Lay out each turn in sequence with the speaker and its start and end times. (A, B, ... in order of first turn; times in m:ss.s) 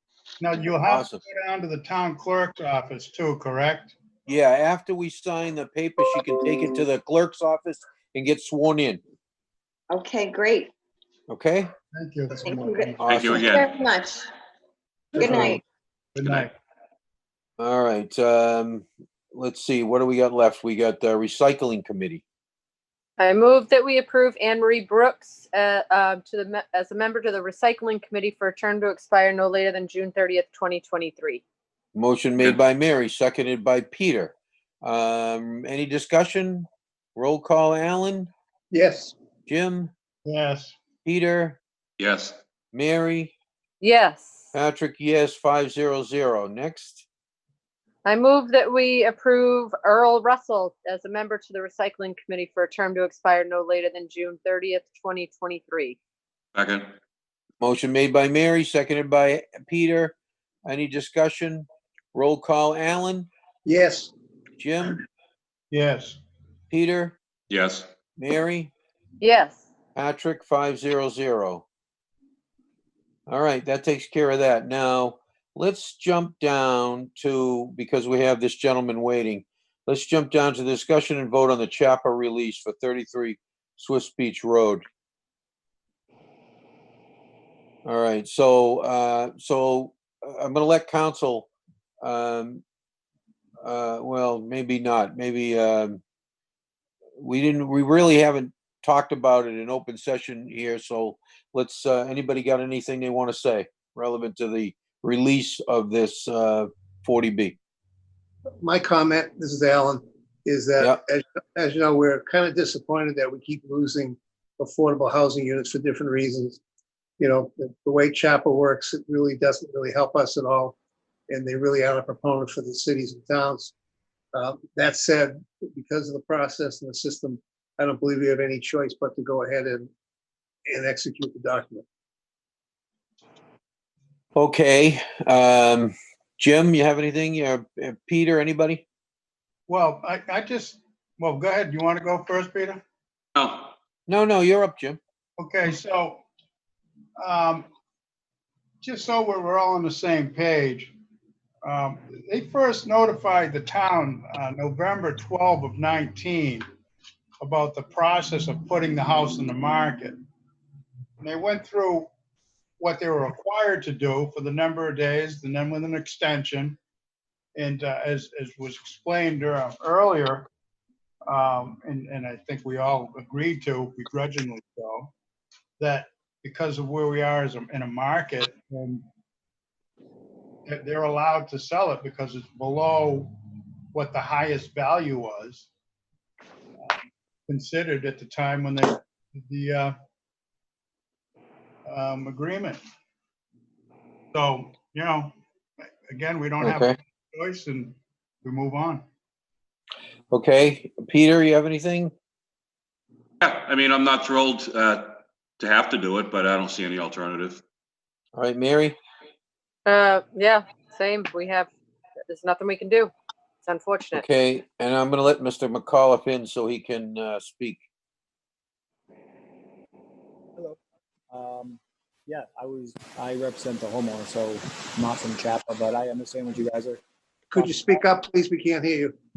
0:00.4-0:04.0 A
0:00.8-0:01.2 B
0:04.3-0:09.0 B
0:09.9-0:10.7 C
0:11.3-0:11.7 B
0:11.9-0:13.0 A
0:12.3-0:14.2 C
0:13.0-0:13.5 B
0:13.1-0:13.7 D
0:15.1-0:15.6 A
0:15.2-0:15.6 C
0:16.2-0:16.5 A
0:17.6-0:22.2 B
0:23.2-0:31.4 E
0:31.9-0:38.3 B
0:38.7-0:39.1 F
0:39.5-0:39.9 B
0:40.2-0:40.8 A
0:41.0-0:41.6 B
0:42.0-0:42.4 D
0:42.7-0:43.3 B
0:43.8-0:44.4 E
0:44.5-0:47.0 B
0:48.0-0:56.0 E
0:56.5-0:57.0 D
0:57.6-1:00.2 B
1:00.7-1:03.3 B
1:03.6-1:04.1 F
1:04.6-1:05.0 B
1:05.7-1:06.2 A
1:06.7-1:07.2 B
1:07.5-1:07.9 D
1:08.2-1:08.7 B
1:09.2-1:09.6 E
1:10.0-1:11.6 B
1:13.3-1:24.8 B
1:27.8-1:31.5 B
1:32.0-1:32.6 B
1:33.6-1:36.0 B
1:37.2-1:47.6 B
1:48.6-1:56.6 F
1:57.2-2:00.7 F
2:01.3-2:03.7 F
2:04.3-2:09.9 F
2:10.6-2:11.8 F
2:14.3-2:18.8 B
2:19.7-2:22.8 A
2:23.4-2:23.7 D
2:24.1-2:25.0 B
2:25.4-2:26.2 A
2:27.2-2:27.7 A
2:28.8-2:30.9 A
2:31.6-2:36.6 A
2:37.4-2:40.2 A
2:41.2-2:42.1 A
2:42.8-2:46.8 A
2:47.6-2:50.5 A
2:51.2-2:55.1 A
2:55.8-2:59.0 A
3:00.6-3:03.4 A
3:03.9-3:05.7 A
3:06.8-3:09.9 A
3:11.9-3:12.8 A
3:14.3-3:19.0 A
3:16.6-3:17.0 B
3:20.3-3:22.1 B
3:23.4-3:27.6 D
3:28.3-3:29.0 B
3:29.8-3:31.7 E
3:32.3-3:33.1 E
3:33.6-3:34.2 E
3:34.1-3:37.8 B
3:41.3-3:47.0 G
3:47.5-3:49.1 F
3:47.5-3:48.0 G